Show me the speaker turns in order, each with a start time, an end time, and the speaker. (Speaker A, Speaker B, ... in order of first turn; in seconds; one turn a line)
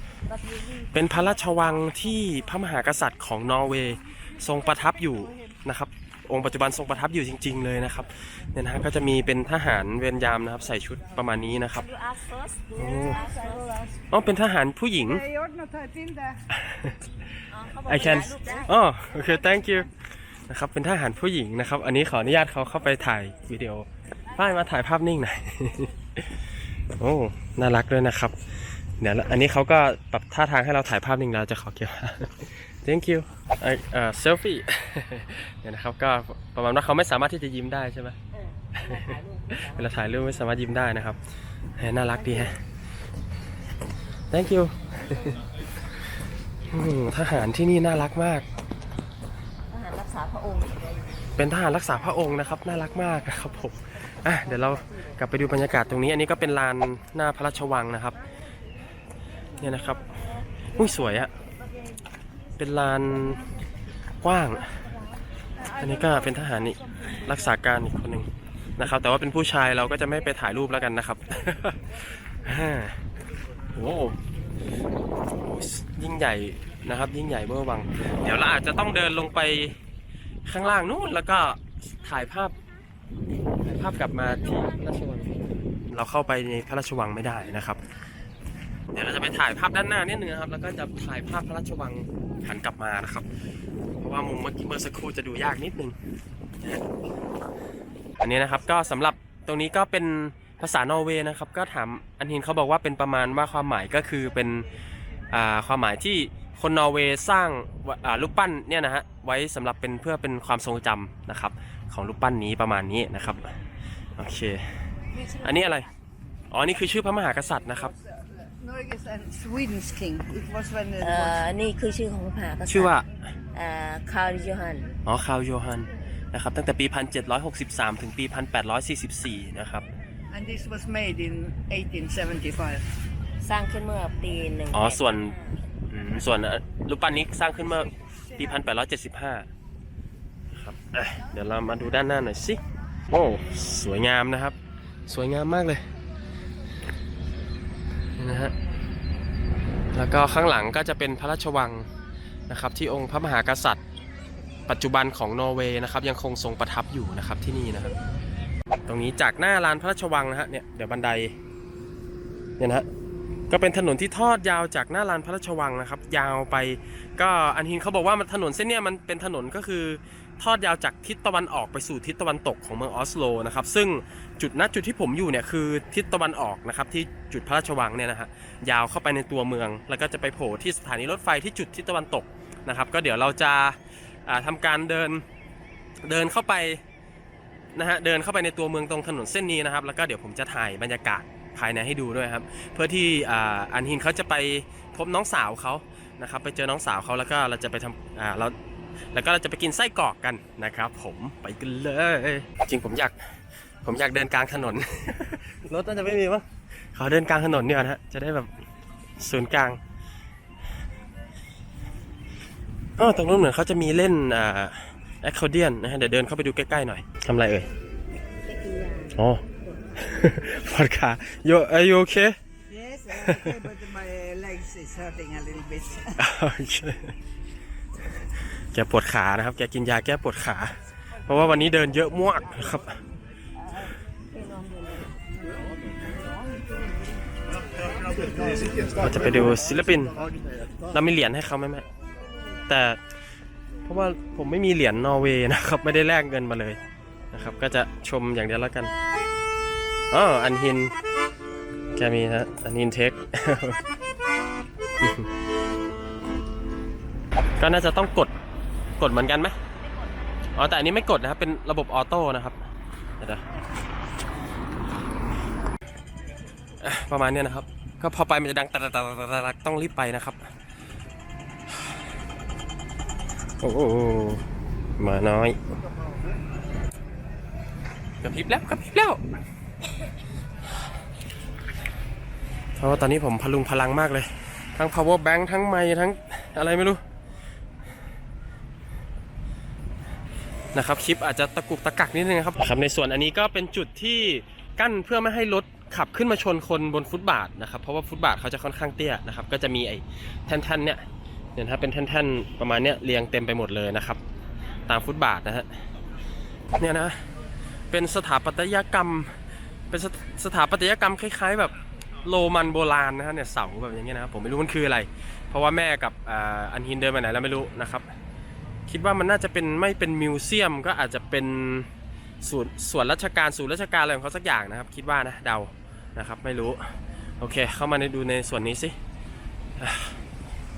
Speaker A: 0.3-1.6
Speaker B: 0.9-11.8
Speaker A: 11.7-13.9
Speaker B: 12.8-13.2
Speaker B: 14.1-15.2
Speaker C: 15.0-16.4
Speaker B: 16.6-16.9
Speaker A: 17.5-18.7
Speaker B: 17.9-19.9
Speaker B: 20.5-26.3
Speaker B: 27.0-28.4
Speaker B: 29.0-38.2
Speaker A: 38.4-40.3
Speaker B: 38.8-41.2
Speaker B: 41.8-42.6
Speaker A: 42.2-42.5
Speaker B: 44.3-45.4
Speaker B: 46.7-48.4
Speaker A: 49.7-50.8
Speaker B: 51.4-58.2
Speaker B: 59.6-60.0
Speaker B: 60.7-61.3
Speaker B: 62.6-63.4
Speaker B: 64.2-64.7
Speaker B: 65.8-73.0
Speaker B: 73.7-74.2
Speaker B: 75.3-79.8
Speaker B: 80.5-82.5
Speaker B: 83.6-85.3
Speaker B: 85.9-87.8
Speaker B: 88.9-93.2
Speaker B: 94.0-96.0
Speaker B: 98.2-104.6
Speaker B: 105.3-113.5
Speaker B: 114.2-114.6
Speaker B: 115.3-115.9
Speaker A: 115.4-115.8
Speaker B: 116.5-117.9
Speaker C: 118.6-121.4
Speaker A: 121.0-122.9
Speaker B: 122.7-123.1
Speaker A: 123.5-124.9
Speaker B: 125.0-129.9
Speaker C: 130.3-132.8
Speaker A: 133.4-135.6
Speaker B: 134.7-135.3
Speaker B: 135.9-139.5
Speaker B: 140.5-142.6
Speaker B: 143.1-144.5
Speaker B: 145.1-145.8
Speaker B: 148.2-148.5
Speaker B: 149.9-151.9
Speaker B: 152.5-153.8
Speaker B: 154.7-157.9
Speaker B: 158.9-161.3
Speaker B: 162.6-162.8
Speaker B: 163.5-185.2
Speaker B: 186.0-186.8
Speaker B: 187.7-198.5
Speaker B: 199.1-203.1
Speaker B: 203.8-208.5
Speaker B: 209.2-209.8
Speaker B: 213.0-217.7
Speaker A: 218.5-219.1
Speaker B: 219.1-219.4
Speaker B: 219.9-222.3
Speaker C: 222.7-226.2
Speaker B: 223.1-223.6
Speaker B: 226.2-227.1
Speaker B: 228.7-230.7
Speaker B: 231.2-233.0
Speaker A: 233.7-235.2
Speaker B: 238.9-240.2
Speaker B: 240.9-241.8
Speaker B: 242.7-243.0
Speaker B: 243.8-246.8
Speaker B: 247.3-248.9
Speaker B: 250.1-250.9
Speaker B: 251.9-253.8
Speaker B: 255.0-255.3
Speaker B: 257.6-258.3
Speaker B: 259.0-259.6
Speaker B: 260.6-262.6
Speaker B: 266.8-270.5
Speaker B: 273.6-274.4
Speaker B: 275.0-275.6
Speaker B: 278.2-279.2
Speaker B: 282.8-287.0
Speaker B: 290.7-301.0
Speaker B: 301.6-304.2
Speaker B: 304.9-305.8
Speaker B: 306.8-307.2
Speaker B: 307.9-309.3
Speaker B: 309.9-318.1
Speaker B: 318.9-321.9
Speaker B: 322.4-328.9
Speaker B: 329.8-330.2